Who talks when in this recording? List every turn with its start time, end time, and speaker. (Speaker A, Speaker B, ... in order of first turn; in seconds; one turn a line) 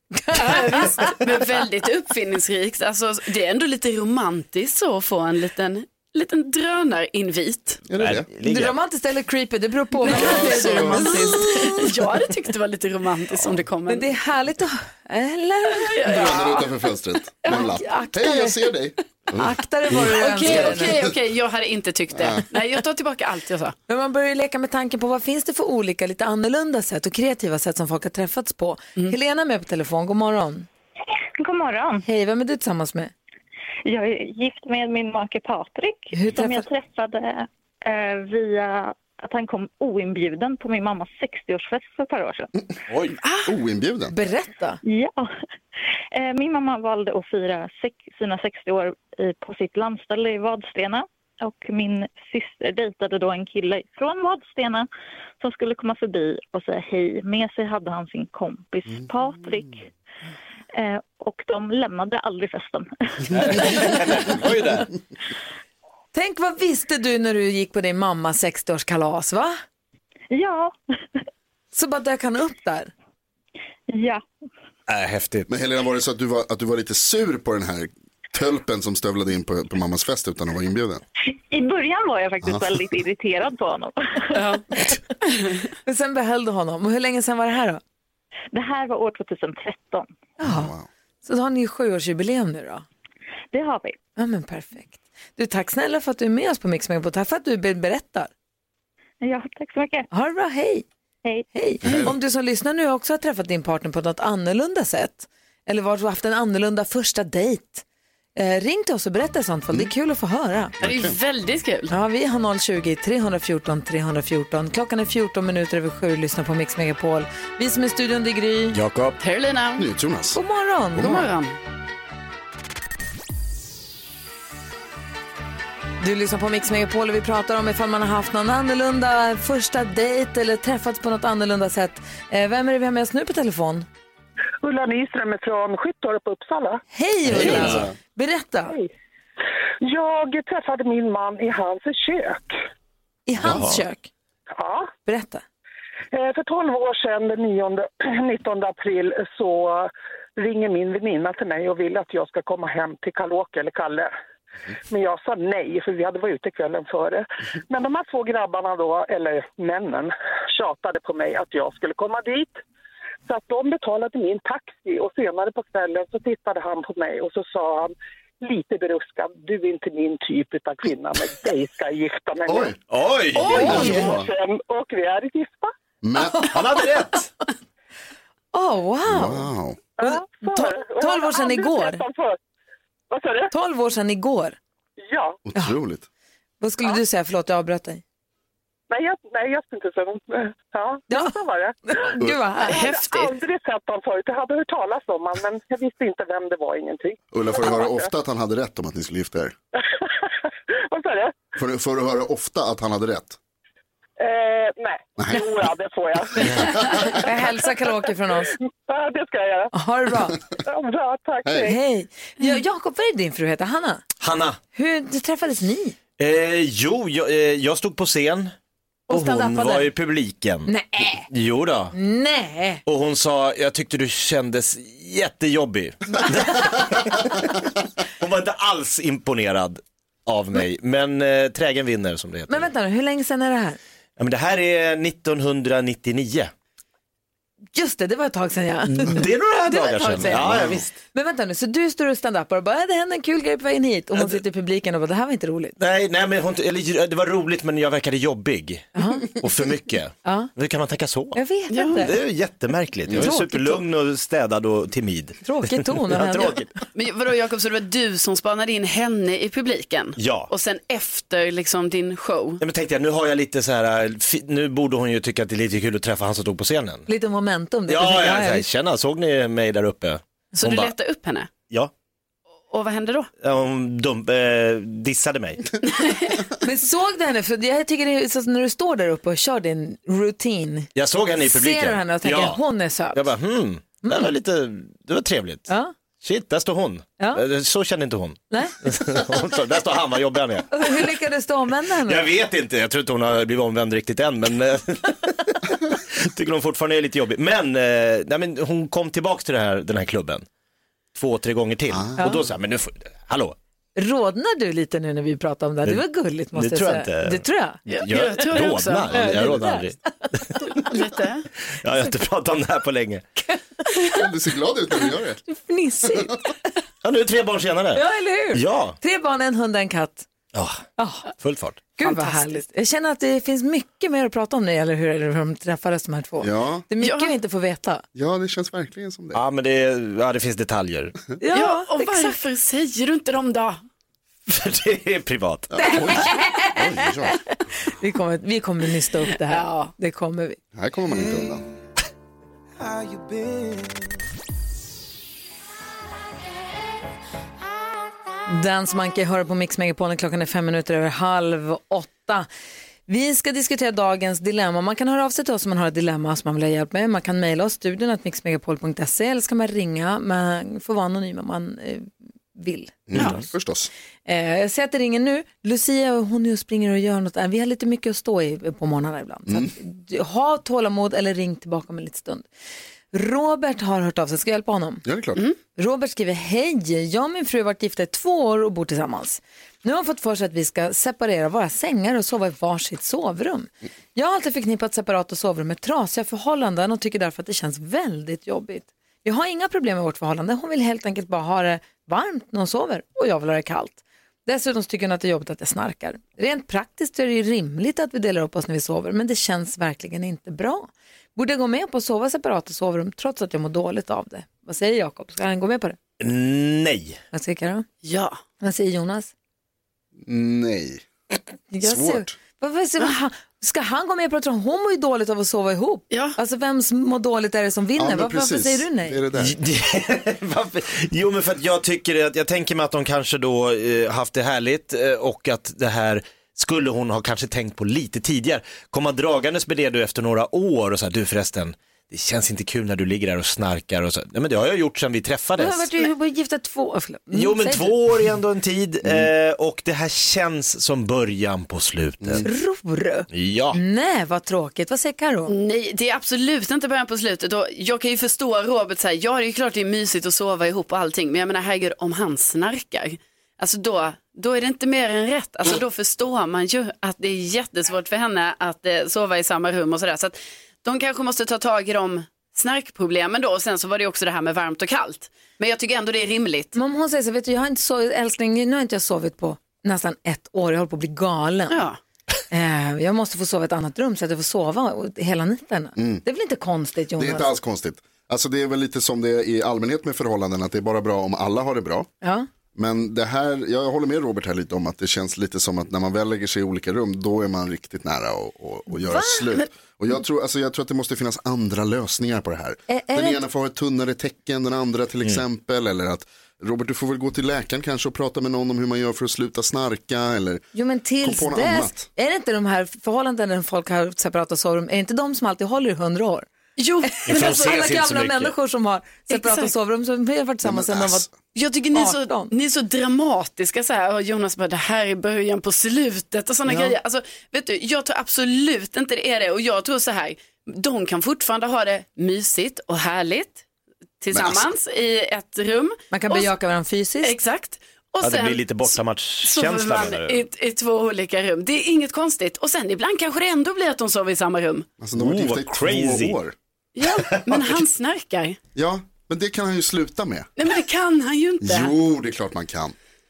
Speaker A: 0.3-1.2
Speaker B: 0.3-7.8
Speaker C: 7.9-8.3
Speaker D: 7.9-8.8
Speaker A: 8.4-11.9
Speaker B: 10.1-14.1
Speaker C: 10.1-11.1
Speaker A: 13.9-16.0
Speaker B: 15.8-16.7
Speaker C: 16.1-21.1
Speaker A: 17.5-18.7
Speaker A: 19.4-21.0
Speaker B: 20.0-23.8
Speaker C: 22.1-22.4
Speaker A: 23.9-30.7
Speaker E: 31.4-32.0
Speaker A: 32.0-33.1
Speaker E: 33.9-42.5
Speaker A: 36.1-36.7
Speaker D: 42.9-43.2
Speaker C: 43.5-44.1
Speaker A: 44.1-44.8
Speaker E: 44.8-45.3
Speaker E: 46.1-54.9
Speaker E: 55.4-59.9
Speaker E: 60.7-64.3
Speaker D: 63.3-64.9
Speaker A: 66.1-69.6
Speaker E: 70.3-70.8
Speaker A: 71.7-72.9
Speaker E: 73.9-74.2
Speaker D: 74.9-75.5
Speaker C: 75.5-81.0
Speaker E: 81.3-84.6
Speaker B: 84.3-84.7
Speaker A: 85.8-87.8
Speaker E: 88.5-90.1
Speaker A: 90.4-90.7
Speaker C: 90.4-90.9
Speaker A: 91.2-92.8
Speaker E: 93.5-94.0
Speaker A: 94.2-98.3
Speaker E: 99.2-100.1
Speaker A: 100.1-100.9
Speaker A: 101.5-107.8
Speaker C: 101.8-102.1
Speaker A: 108.4-110.7
Speaker C: 110.8-111.2
Speaker B: 110.8-111.9
Speaker A: 111.9-118.8
Speaker D: 118.7-119.2
Speaker B: 119.2-119.8
Speaker C: 119.8-120.4
Speaker A: 120.3-121.2
Speaker C: 121.0-121.3
Speaker B: 121.0-121.5
Speaker A: 126.0-133.9
Speaker F: 134.6-136.8
Speaker A: 136.9-138.8
Speaker D: 137.3-137.9
Speaker C: 137.4-137.8
Speaker F: 139.8-142.6
Speaker A: 143.3-144.1
Speaker D: 143.4-143.8
Speaker F: 144.6-144.9
Speaker A: 145.1-145.4
Speaker F: 146.1-154.1
Speaker F: 154.9-162.6
Speaker F: 163.3-172.7
Speaker C: 172.5-172.8
Speaker D: 172.9-174.1
Speaker C: 173.4-174.3
Speaker A: 173.4-174.1
Speaker F: 173.4-175.7
Speaker C: 176.0-176.5
Speaker A: 176.2-176.5
Speaker D: 176.4-177.3
Speaker A: 178.5-179.5
Speaker C: 179.1-179.8
Speaker F: 180.0-182.4
Speaker A: 180.0-182.0
Speaker F: 183.1-183.5
Speaker A: 183.5-184.6
Speaker F: 185.1-185.4
Speaker C: 185.4-186.1
Speaker A: 186.6-188.0
Speaker F: 188.9-192.0
Speaker A: 191.9-192.9
Speaker F: 192.6-198.1
Speaker B: 192.7-193.3
Speaker C: 197.3-199.5
Speaker F: 200.9-201.4
Speaker C: 201.6-203.4
Speaker F: 204.2-207.2
Speaker C: 205.2-205.5
Speaker C: 206.4-207.1
Speaker A: 206.4-208.5
Speaker F: 208.8-209.7
Speaker A: 209.7-210.4
Speaker F: 210.7-211.8
Speaker C: 211.4-211.7
Speaker A: 211.6-214.1
Speaker D: 214.2-214.6
Speaker A: 214.8-216.0
Speaker D: 216.2-218.5
Speaker A: 219.1-219.9
Speaker D: 219.1-220.7
Speaker A: 220.7-221.3
Speaker D: 221.3-221.9
Speaker A: 221.9-222.8
Speaker D: 222.9-227.5
Speaker D: 228.2-232.7
Speaker A: 232.5-233.8
Speaker D: 234.2-236.5
Speaker A: 237.8-245.8
Speaker D: 238.9-240.9
Speaker D: 245.8-251.4
Speaker A: 249.0-249.3
Speaker A: 250.2-250.5
Speaker A: 251.3-252.2
Speaker B: 251.7-252.0
Speaker D: 251.9-256.7
Speaker A: 253.1-253.8
Speaker A: 255.4-256.6
Speaker B: 256.9-262.6
Speaker D: 260.2-260.5
Speaker D: 262.6-267.1
Speaker A: 267.1-268.7
Speaker D: 267.9-270.9
Speaker B: 270.6-271.5
Speaker B: 272.7-273.3
Speaker D: 273.4-275.7
Speaker B: 275.8-276.4
Speaker A: 276.6-280.9
Speaker D: 280.9-282.6
Speaker A: 281.4-283.3
Speaker D: 283.1-285.7
Speaker A: 284.0-284.3
Speaker A: 285.7-285.9
Speaker D: 286.2-290.9
Speaker A: 288.5-288.8
Speaker A: 290.7-292.3
Speaker D: 292.1-295.4
Speaker D: 296.2-300.5
Speaker D: 301.1-303.6
Speaker C: 301.9-302.3
Speaker A: 304.0-307.8
Speaker D: 305.9-310.6
Speaker B: 307.9-309.3
Speaker A: 309.1-310.2
Speaker B: 310.8-311.5
Speaker D: 311.8-313.2
Speaker A: 313.5-314.1
Speaker C: 314.1-315.4
Speaker A: 315.5-316.5
Speaker D: 317.0-319.0
Speaker A: 317.9-320.3
Speaker D: 320.5-320.8
Speaker A: 321.0-321.3
Speaker D: 321.4-321.9
Speaker A: 322.0-328.0
Speaker B: 322.0-322.5
Speaker C: 326.4-326.9
Speaker B: 327.0-327.3
Speaker C: 328.1-329.4
Speaker D: 329.3-331.2
Speaker A: 331.4-332.4
Speaker B: 331.5-333.8
Speaker D: 334.5-335.9
Speaker C: 335.7-337.4
Speaker A: 335.8-337.4
Speaker A: 337.9-340.6
Speaker B: 339.5-339.9
Speaker C: 340.8-341.6
Speaker A: 348.5-352.5
Speaker A: 353.1-363.1
Speaker C: 363.1-363.9
Speaker A: 364.3-372.5
Speaker A: 373.1-375.0
Speaker C: 375.1-375.4
Speaker A: 375.8-406.0
Speaker D: 406.2-407.2
Speaker A: 407.3-407.9
Speaker B: 408.0-408.4
Speaker A: 408.6-409.3
Speaker C: 410.2-411.1
Speaker A: 411.7-419.2
Speaker C: 411.8-412.4
Speaker B: 416.1-416.4
Speaker C: 418.0-419.6
Speaker D: 419.4-435.9
Speaker A: 435.6-438.0
Speaker D: 437.3-442.5
Speaker A: 442.4-445.5
Speaker D: 443.3-443.8
Speaker B: 445.5-466.8
Speaker A: 466.7-471.8
Speaker B: 471.7-472.0
Speaker A: 472.5-477.5
Speaker C: 476.0-476.2
Speaker C: 477.2-482.1
Speaker A: 482.2-482.5
Speaker C: 482.8-500.6
Speaker A: 489.0-489.6
Speaker A: 492.9-493.4
Speaker A: 500.7-506.5
Speaker C: 501.2-502.1
Speaker B: 506.8-507.7
Speaker A: 507.1-511.3
Speaker D: 507.3-508.6
Speaker B: 509.3-509.7
Speaker C: 510.6-511.3
Speaker B: 511.6-523.6
Speaker A: 511.9-512.5
Speaker B: 524.2-526.5
Speaker C: 524.3-524.7
Speaker A: 526.1-527.3
Speaker B: 527.2-534.9
Speaker D: 528.2-530.4
Speaker C: 535.0-536.5
Speaker D: 535.1-536.4
Speaker B: 537.0-538.6
Speaker D: 537.2-537.6
Speaker C: 538.8-540.5
Speaker B: 540.6-541.9
Speaker C: 541.6-543.0